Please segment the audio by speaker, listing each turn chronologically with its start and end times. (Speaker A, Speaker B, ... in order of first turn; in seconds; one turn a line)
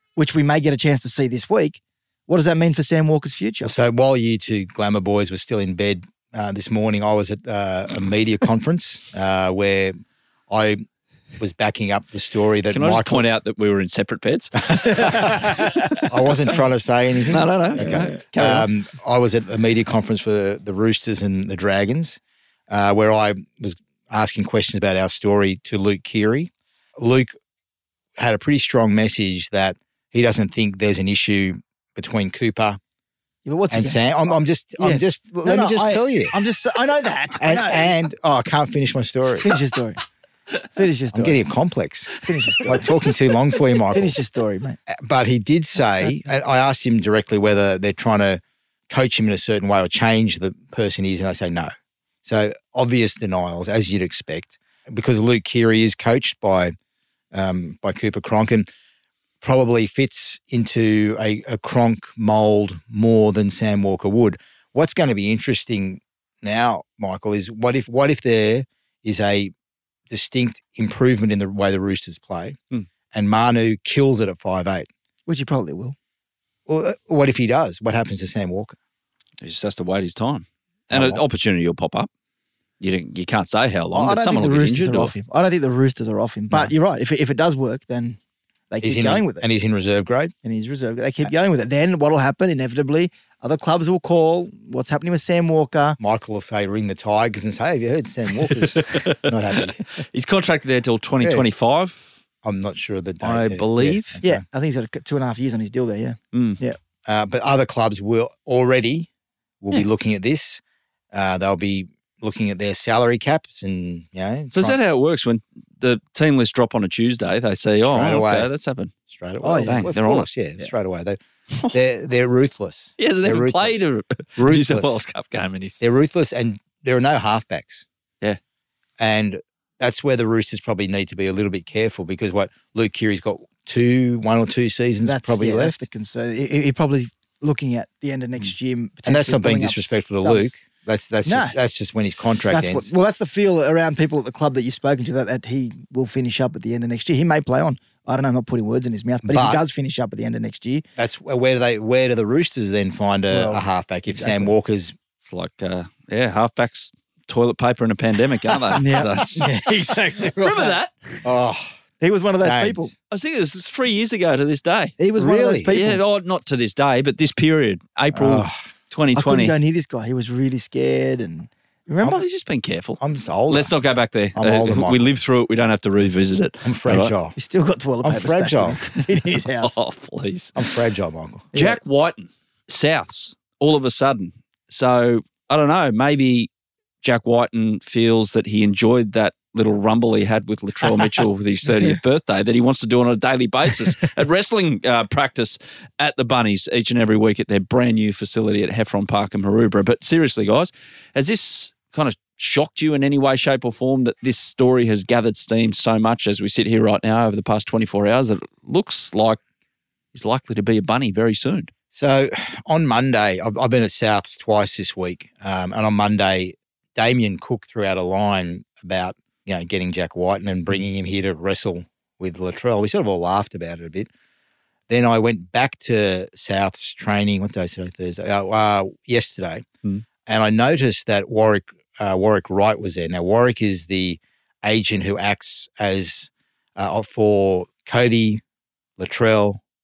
Speaker A: 0.1-3.7
Speaker B: 3.6-9.9
Speaker B: 10.5-10.8
Speaker B: 11.4-13.2
Speaker C: 12.7-16.0
Speaker B: 14.7-27.3
Speaker C: 17.3-18.7
Speaker B: 28.2-32.8
Speaker A: 33.4-38.0
Speaker B: 33.7-36.3
Speaker B: 37.4-39.5
Speaker A: 39.4-40.0
Speaker A: 40.7-41.4
Speaker B: 41.1-44.1
Speaker A: 42.2-42.9
Speaker A: 43.9-44.8
Speaker B: 44.9-51.7
Speaker B: 52.2-56.7
Speaker B: 57.3-58.7
Speaker B: 59.4-69.5
Speaker B: 70.1-72.6
Speaker B: 73.1-74.9
Speaker A: 75.3-76.0
Speaker B: 76.7-78.8
Speaker C: 79.4-82.1
Speaker B: 80.9-81.2
Speaker C: 82.8-85.1
Speaker A: 83.9-88.2
Speaker A: 88.7-89.4
Speaker B: 88.8-90.3
Speaker A: 90.4-96.0
Speaker B: 96.0-99.8
Speaker C: 98.4-102.2
Speaker B: 101.2-101.5
Speaker B: 102.4-104.4
Speaker C: 103.2-104.2
Speaker A: 104.2-106.8
Speaker C: 106.3-106.6
Speaker B: 107.0-109.1
Speaker B: 109.6-114.8
Speaker C: 114.5-118.9
Speaker B: 117.8-118.5
Speaker B: 119.1-121.2
Speaker A: 119.4-119.9
Speaker C: 119.5-120.3
Speaker B: 121.7-123.8
Speaker C: 123.0-125.8
Speaker B: 124.4-125.0
Speaker B: 125.8-127.9
Speaker B: 129.0-135.8
Speaker A: 135.0-140.5
Speaker B: 139.1-142.9
Speaker A: 141.2-141.6
Speaker A: 142.5-150.8
Speaker B: 149.2-149.6
Speaker B: 151.0-154.9
Speaker A: 153.3-154.5
Speaker C: 155.2-159.5
Speaker A: 158.7-160.8
Speaker C: 160.4-160.9
Speaker B: 161.2-161.7
Speaker A: 162.0-162.9
Speaker B: 162.4-162.9
Speaker C: 163.1-165.0
Speaker A: 165.0-166.0
Speaker B: 165.2-165.7
Speaker C: 165.7-169.5
Speaker B: 168.1-168.5
Speaker A: 169.1-172.2
Speaker C: 172.1-177.1
Speaker B: 173.0-173.7
Speaker B: 174.3-175.0
Speaker B: 176.6-177.3
Speaker A: 177.3-179.7
Speaker B: 178.0-178.8
Speaker C: 179.6-180.6
Speaker B: 180.6-181.5
Speaker C: 181.5-186.5
Speaker A: 181.5-181.8
Speaker C: 187.0-209.4
Speaker C: 210.1-211.7
Speaker B: 211.9-224.1
Speaker B: 224.9-229.7
Speaker B: 230.2-238.4
Speaker B: 239.0-239.6